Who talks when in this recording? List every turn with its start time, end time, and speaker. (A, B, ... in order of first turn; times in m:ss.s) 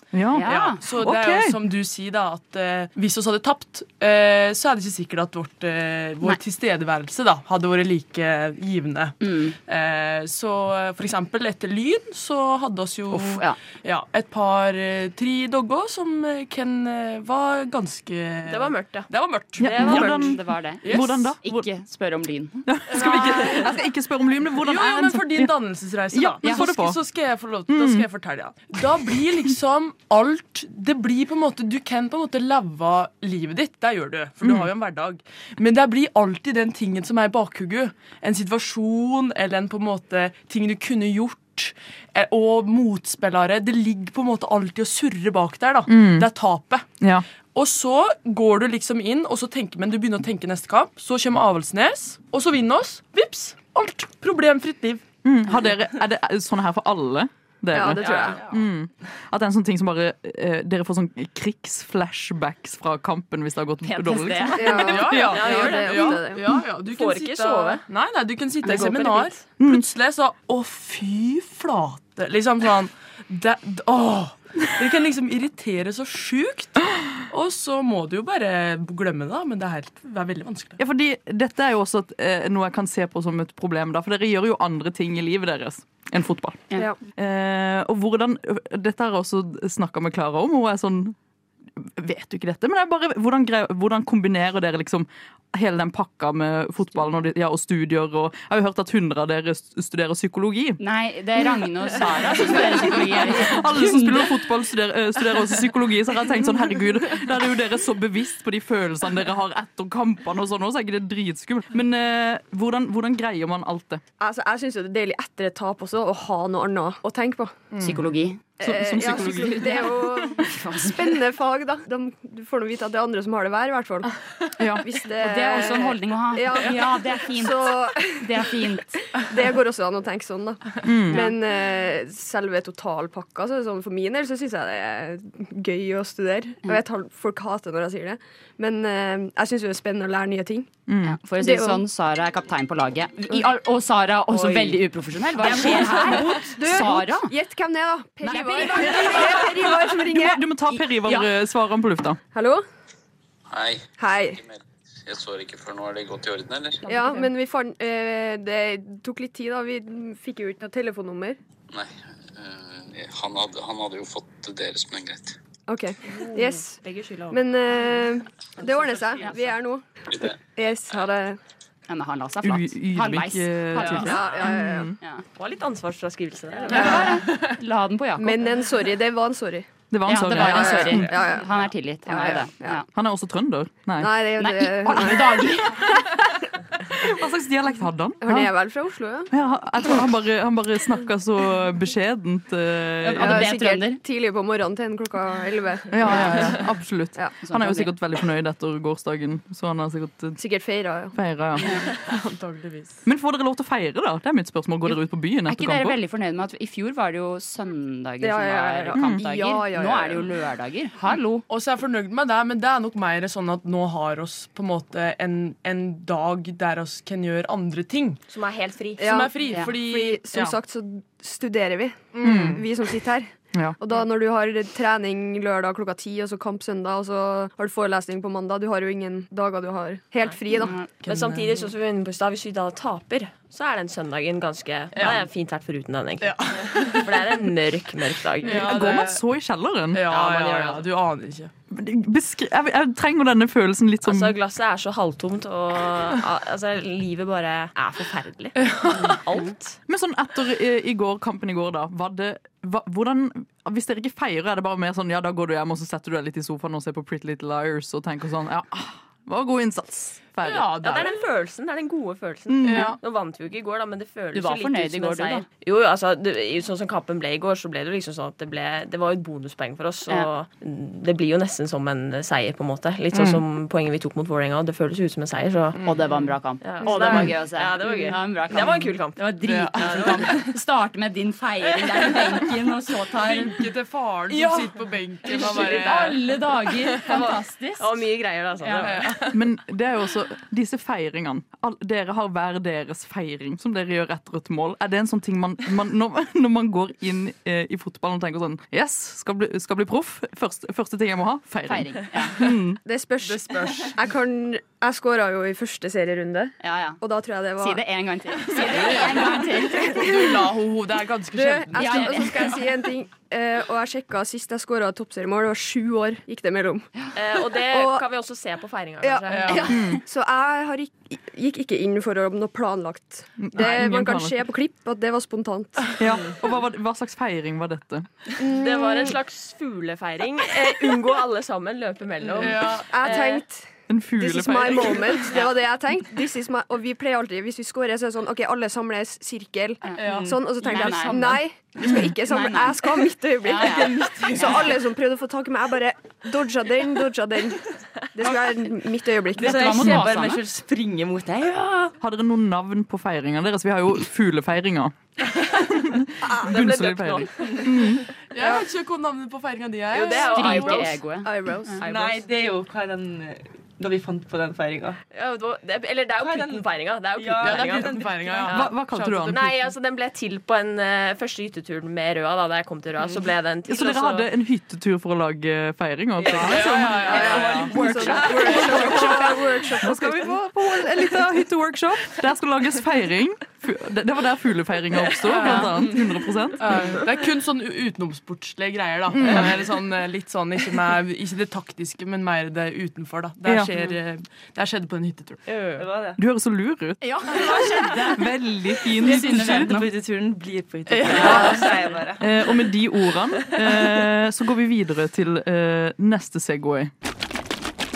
0:00.1-0:01.6 A
0:00.4-0:00.8 B
0:00.4-0:19.9 C
0:09.2-0:09.6 B
0:13.1-0:13.6 B
0:18.5-0:20.4 D
0:19.6-0:21.7 A
0:19.8-0:22.7 B
0:20.8-0:21.3 C
0:22.7-0:25.6 A
0:22.9-0:23.8 C
0:24.6-0:46.9 C
0:26.1-0:27.0 A
0:26.4-0:26.7 B
0:27.7-0:28.1 A
0:34.4-0:34.7 A
0:45.9-0:46.3 A
0:47.5-0:55.0 C
0:55.2-1:05.4 A
0:57.7-0:58.4 E
0:58.0-0:58.5 D
1:04.0-1:04.6 D
1:04.0-1:04.8 B
1:04.6-1:06.5 E
1:04.7-1:20.8 C
1:05.3-1:07.9 D
1:08.6-1:09.3 D
1:09.6-1:09.9 A
1:20.8-1:31.2 A
1:31.8-1:40.8 A
1:40.8-1:44.3 B
1:42.9-1:54.0 A
1:54.2-1:57.6 E
1:57.7-1:58.0 C
1:57.8-1:58.4 B
1:58.6-2:04.1 E
1:58.6-2:00.2 A
2:00.3-2:01.2 B
2:04.6-2:04.9 A
2:04.7-2:20.7 E
2:05.2-2:09.0 B
2:10.8-2:11.2 A
2:11.1-2:11.4 B
2:20.9-2:21.2 A
2:21.1-2:27.3 B
2:21.4-2:21.8 E
2:24.4-2:24.7 D
2:25.4-2:30.5 E
2:25.7-2:26.0 D
2:28.3-2:32.2 A
2:28.3-2:29.6 B
2:31.0-2:31.3 B
2:32.3-2:32.6 E
2:33.5-2:36.8 F
2:34.0-2:34.4 E
2:36.9-2:41.4 E
2:41.7-2:45.4 F
2:45.7-2:51.4 E
2:46.1-2:47.4 D
2:50.1-2:50.4 F
2:51.9-2:54.2 B
2:52.4-2:55.0 A
2:53.9-2:54.9 E
2:55.4-2:57.2 D
2:56.6-2:58.5 B
2:56.7-2:57.2 E
2:57.2-2:57.6 C
2:58.2-2:59.7 E
2:59.9-3:01.2 A
3:00.1-3:02.9 B
3:00.3-3:02.8 E
3:03.0-3:04.2 A
3:04.0-3:05.5 E
3:04.4-3:06.0 B
3:05.8-3:08.5 A
3:08.2-3:09.3 E
3:09.3-3:13.5 A
3:13.0-3:14.0 B
3:13.2-3:16.6 E
3:15.9-3:20.4 A
3:16.1-3:16.5 B
3:17.4-3:17.9 B
3:20.4-3:21.2 E
3:21.1-3:21.7 A
3:21.6-3:23.0 C
3:23.0-3:26.0 A
3:25.5-3:31.4 B
3:28.2-3:30.3 E
3:29.0-3:29.2 A
3:31.5-3:38.2 C
3:38.3-3:39.3 D
3:39.0-3:50.8 E
3:39.0-3:40.6 C
3:42.1-3:42.6 C
3:42.2-3:42.6 A
3:50.5-3:50.9 B
3:51.0-3:51.7 C
3:51.1-3:59.0 D
3:54.9-3:55.3 C
3:56.2-3:57.5 C
3:58.4-3:59.2 C
3:58.4-4:00.0 A
3:59.9-4:01.5 C
4:00.1-4:00.9 D
4:01.7-4:04.4 A
4:04.0-4:09.8 D
4:08.6-4:09.2 C
4:09.9-4:20.8 A
4:20.4-4:21.2 C
4:20.8-4:35.8 D
4:22.5-4:23.0 A
4:22.7-4:23.0 C
4:24.3-4:25.5 B
4:33.1-4:33.4 C
4:35.7-4:36.3 C
4:35.8-4:43.6 B
4:36.6-4:40.4 D
4:37.0-4:37.4 C
4:39.4-4:40.6 C
4:41.9-4:42.5 C
4:43.1-4:46.4 C
4:44.3-4:48.0 B
4:47.0-4:49.2 D
4:48.6-4:49.0 B
4:48.8-4:49.5 C
4:49.3-5:02.8 A
5:01.7-5:02.4 B
5:02.8-5:07.8 E
5:03.2-5:04.0 C
5:06.6-5:07.0 B
5:07.6-5:10.3 B
5:08.5-5:10.4 E
5:08.8-5:12.4 C
5:11.3-5:16.9 E
5:11.8-5:12.6 B
5:17.2-5:19.8 D
5:17.5-5:18.1 E
5:19.0-5:26.0 E
5:19.3-5:19.7 C
5:19.7-5:20.0 A
5:23.4-5:24.4 A
5:26.0-5:28.1 A
5:28.4-5:29.1 E
5:28.4-5:33.4 D
5:32.2-5:33.0 C
5:32.7-5:49.9 E
5:33.9-5:35.2 A
5:39.8-5:44.8 B
5:40.0-5:40.4 C
5:40.0-5:40.3 G
5:43.7-5:44.7 G
5:49.4-5:52.0 G
5:49.4-5:50.4 B
5:52.0-5:58.1 A
5:56.2-5:56.6 E
5:56.2-5:57.7 D
5:57.4-5:57.8 G
5:58.3-6:00.8 C
5:58.4-5:58.6 E
5:59.9-6:01.0 D
6:00.0-6:01.8 E
6:00.3-6:01.8 B
6:01.8-6:02.3 D
6:01.8-6:05.0 G
6:05.1-6:14.3 D
6:06.2-6:08.6 G
6:07.4-6:09.4 C
6:08.5-6:09.6 A
6:13.0-6:13.3 G
6:13.7-6:26.8 A
6:16.2-6:17.2 D
6:16.3-6:19.2 C
6:17.0-6:20.4 E
6:25.2-6:26.0 C
6:26.6-6:35.4 C
6:29.1-6:29.5 A
6:33.5-6:33.7 A
6:35.5-6:35.8 D
6:35.7-6:36.2 G
6:36.2-6:37.0 A
6:37.0-6:38.3 B
6:38.1-6:39.8 A
6:38.9-6:39.9 B
6:39.1-6:42.4 G
6:40.9-6:41.9 C
6:41.2-6:41.5 B
6:42.2-6:46.9 A